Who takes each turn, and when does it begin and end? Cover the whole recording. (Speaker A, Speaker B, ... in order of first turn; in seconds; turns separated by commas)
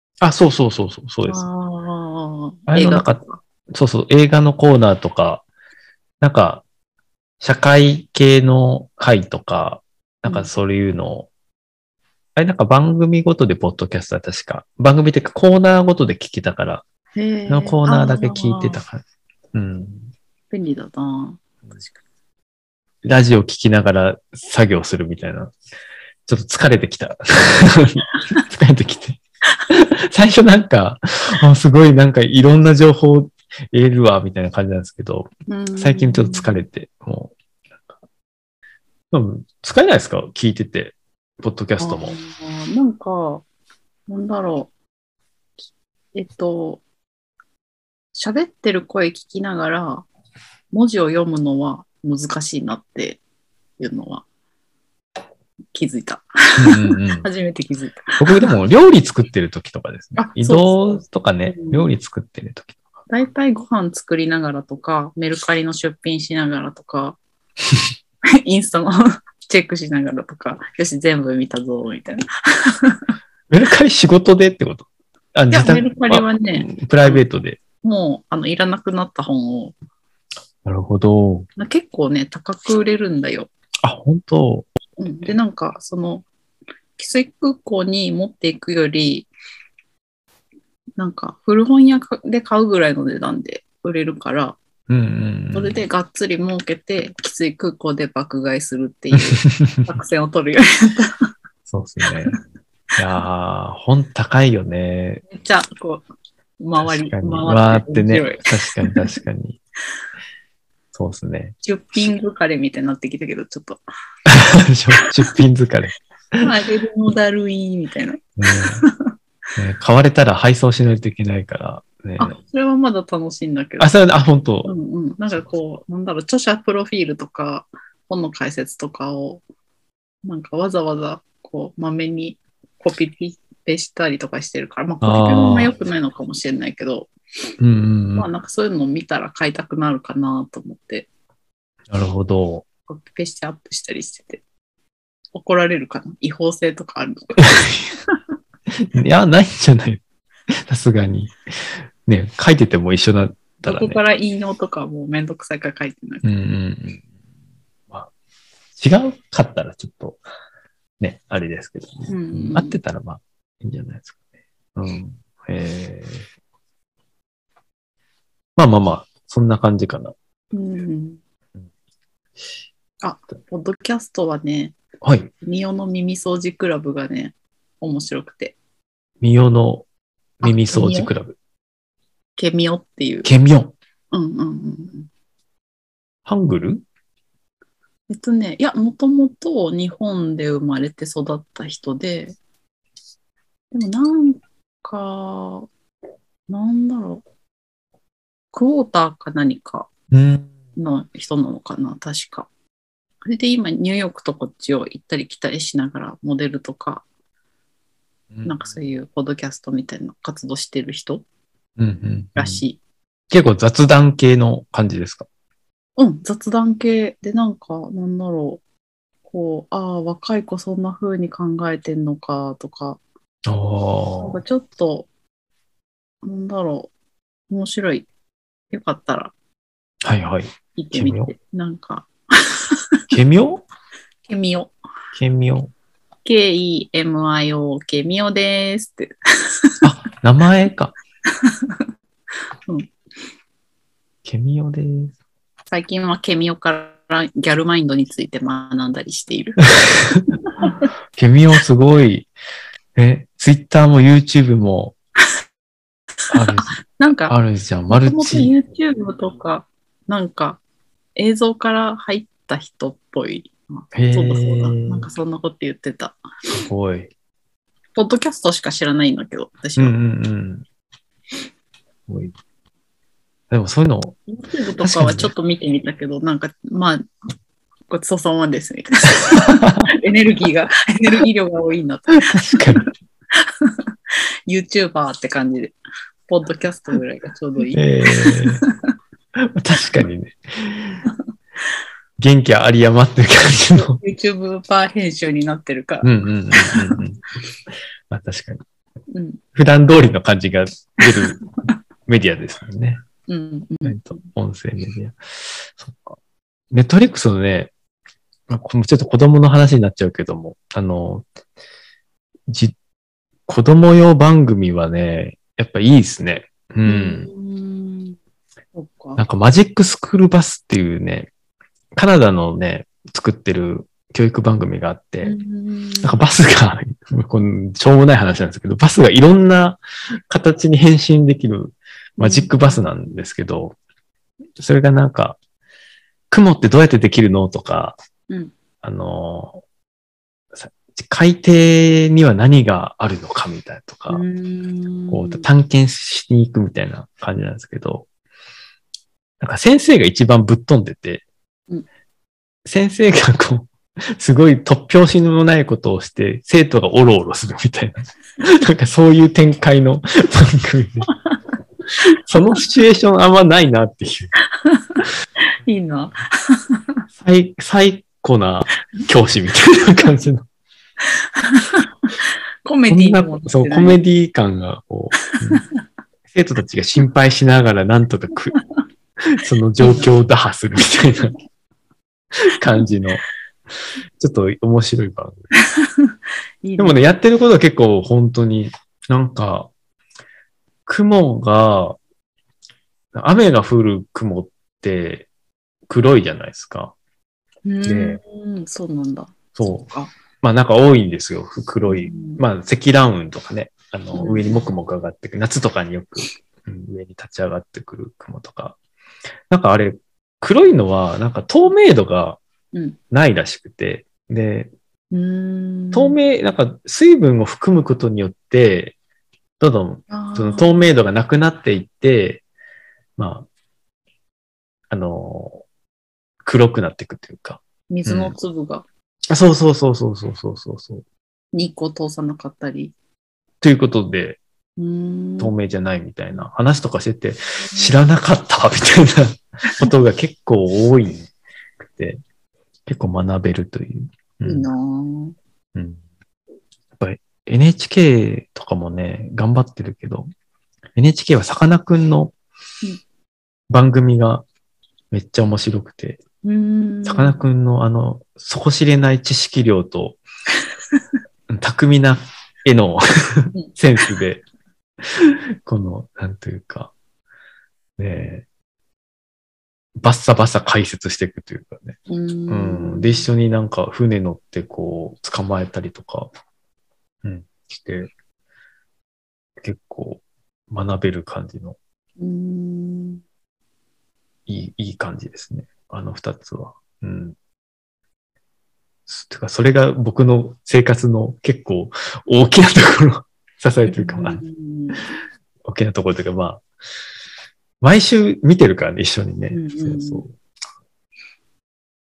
Speaker A: 0.2-1.5, Speaker B: 1.2-3.4, Speaker A: 2.7-5.4, Speaker A: 6.2-6.6, Speaker A: 7.4-11.3, Speaker A: 12.3-16.8, Speaker B: 17.1-18.8, Speaker A: 17.5-19.0, Speaker A: 19.5-20.1, Speaker B: 20.5-21.4, Speaker A: 23.0-25.5, Speaker A: 26.3-37.3, Speaker B: 35.5-36.6, Speaker A: 39.1-42.2, Speaker B: 41.8-43.4, Speaker B: 44.1-44.7, Speaker B: 46.1-46.8, Speaker B: 48.1-50.0, Speaker B: 50.7-53.2, Speaker B: 53.8-54.2, Speaker B: 55.7-58.5, Speaker A: 56.6-57.3, Speaker A: 58.2-62.8, Speaker B: 60.1-61.8, Speaker B: 63.1-67.2, Speaker B: 68.2-73.0, Speaker A: 73.5-77.6, Speaker B: 75.5-77.2, Speaker B: 77.8-79.7, Speaker A: 80.6-81.5, Speaker B: 81.6-83.5, Speaker A: 83.8-84.7, Speaker B: 85.0-86.2, Speaker B: 87.0-89.3, Speaker B: 91.0-94.6, Speaker A: 94.9-95.8, Speaker B: 95.5-101.2, Speaker A: 99.1-99.9, Speaker A: 101.7-102.4, Speaker A: 103.0-105.2, Speaker B: 105.3-106.0, Speaker B: 106.6-109.1, Speaker A: 106.8-109.6, Speaker A: 110.9-112.1, Speaker B: 111.6-113.8, Speaker A: 114.2-116.5, Speaker B: 116.4-119.0, Speaker A: 118.4-118.8, Speaker A: 119.5-122.3, Speaker B: 122.2-123.9, Speaker A: 123.8-124.7, Speaker B: 124.6-129.4, Speaker B: 130.2-137.1, Speaker A: 135.0-135.7, Speaker A: 137.6-138.3, Speaker B: 138.1-141.1, Speaker A: 141.9-142.7, Speaker B: 142.9-144.4, Speaker B: 145.3-147.5, Speaker A: 147.4-147.8, Speaker A: 148.8-150.0, Speaker A: 150.7-151.3, Speaker A: 152.1-154.0, Speaker B: 153.6-156.2, Speaker A: 156.2-157.0, Speaker A: 158.8-160.2, Speaker A: 161.0-164.1, Speaker B: 162.1-162.8, Speaker A: 164.7-166.2, Speaker A: 168.6-170.1, Speaker B: 170.5-171.2, Speaker B: 173.0-174.7, Speaker A: 175.0-175.3, Speaker B: 175.4-178.6, Speaker A: 179.2-179.8, Speaker A: 180.4-181.3, Speaker B: 180.4-181.1, Speaker B: 182.4-183.3, Speaker A: 183.2-183.7, Speaker B: 184.1-185.1, Speaker A: 186.2-186.8, Speaker B: 188.1-192.4, Speaker B: 193.7-195.7, Speaker B: 196.5-197.2, Speaker B: 198.5-199.9, Speaker A: 200.1-200.5, Speaker B: 200.8-202.5, Speaker B: 203.2-207.0, Speaker A: 208.3-208.6, Speaker B: 208.4-211.2, Speaker A: 211.8-212.6, Speaker B: 212.3-212.8, Speaker A: 213.3-215.3, Speaker B: 216.0-218.6, Speaker B: 219.3-223.0, Speaker A: 223.4-224.4, Speaker B: 224.2-225.1, Speaker B: 226.2-226.9, Speaker B: 227.5-228.1, Speaker B: 228.7-229.3, Speaker A: 230.0-231.3, Speaker B: 230.8-233.0, Speaker A: 233.1-233.6, Speaker B: 234.2-234.7, Speaker A: 235.1-235.7, Speaker B: 236.2-239.8, Speaker A: 239.8-240.9, Speaker B: 241.2-241.9, Speaker B: 242.7-242.9, Speaker A: 244.2-245.1, Speaker B: 245.7-249.6, Speaker A: 249.8-250.2, Speaker B: 250.4-250.9, Speaker A: 251.2-252.3, Speaker A: 252.9-254.9, Speaker A: 256.3-258.5, Speaker B: 256.6-257.3, Speaker B: 257.9-260.6, Speaker B: 261.1-266.2, Speaker A: 263.9-265.1, Speaker A: 266.5-267.1, Speaker B: 267.9-270.0, Speaker A: 269.8-270.6, Speaker A: 272.1-272.3, Speaker A: 273.5-274.2, Speaker B: 274.3-277.0, Speaker A: 274.8-275.3, Speaker B: 277.9-288.7, Speaker A: 279.2-279.9, Speaker A: 282.1-282.9, Speaker A: 287.7-288.6, Speaker A: 289.4-291.1, Speaker A: 292.2-294.0, Speaker B: 293.7-296.1, Speaker A: 296.0-297.2, Speaker B: 296.6-296.9, Speaker A: 298.1-298.6, Speaker B: 299.1-299.4, Speaker A: 299.5-301.4, Speaker A: 302.1-303.0, Speaker B: 303.3-304.1, Speaker A: 303.8-306.2, Speaker A: 306.7-307.7, Speaker A: 308.5-311.2, Speaker A: 312.5-312.7, Speaker A: 313.5-317.3, Speaker B: 316.8-318.2, Speaker B: 318.7-319.2, Speaker A: 319.2-321.3, Speaker A: 321.9-325.3, Speaker B: 325.2-326.2, Speaker A: 326.0-333.8, Speaker B: 332.2-332.8, Speaker A: 334.6-335.4, Speaker A: 336.3-338.0, Speaker A: 338.8-339.6, Speaker A: 340.6-344.2, Speaker B: 344.1-345.5, Speaker A: 345.1-348.1, Speaker A: 349.4-351.2, Speaker A: 352.6-361.1, Speaker A: 362.0-364.3, Speaker B: 364.6-365.0, Speaker B: 365.6-367.0, Speaker A: 367.2-370.4, Speaker B: 371.0-374.0, Speaker A: 372.9-375.6, Speaker B: 375.4-375.8, Speaker A: 376.3-378.6, Speaker A: 379.2-381.4, Speaker B: 379.8-380.1, Speaker A: 382.4-383.2, Speaker A: 384.2-385.4, Speaker B: 385.7-387.0, Speaker A: 386.8-389.7, Speaker A: 390.9-392.0, Speaker A: 393.1-395.3, Speaker A: 395.9-396.9, Speaker B: 397.6-400.1, Speaker A: 397.8-398.2, Speaker A: 399.5-399.9, Speaker A: 400.4-408.8, Speaker B: 401.9-402.4, Speaker B: 404.1-404.6, Speaker A: 409.5-412.4, Speaker A: 413.1-414.7, Speaker B: 415.1-416.2, Speaker A: 415.9-418.9, Speaker A: 419.6-422.4, Speaker B: 420.1-420.9, Speaker A: 423.2-423.5, Speaker A: 424.9-425.6, Speaker A: 426.4-428.3, Speaker B: 427.9-428.8, Speaker A: 429.3-431.0, Speaker B: 431.5-432.9, Speaker A: 433.6-434.4, Speaker B: 434.8-435.5, Speaker A: 435.4-441.3, Speaker A: 441.8-442.2, Speaker A: 442.9-444.7, Speaker B: 444.4-445.3, Speaker A: 445.7-446.0, Speaker A: 447.0-450.3, Speaker A: 450.9-452.3, Speaker A: 453.7-454.4, Speaker A: 455.1-456.2, Speaker B: 456.4-457.4, Speaker A: 457.0-460.2, Speaker A: 461.5-464.4, Speaker A: 465.0-466.9, Speaker A: 468.0-468.4, Speaker A: 470.0-472.0, Speaker B: 472.1-473.3, Speaker A: 472.5-476.3, Speaker A: 477.2-478.1, Speaker A: 479.6-481.8, Speaker B: 482.2-483.2, Speaker A: 484.5-487.4, Speaker A: 489.1-494.4, Speaker B: 493.9-495.1, Speaker A: 495.6-496.6, Speaker A: 497.8-500.3, Speaker B: 499.5-500.2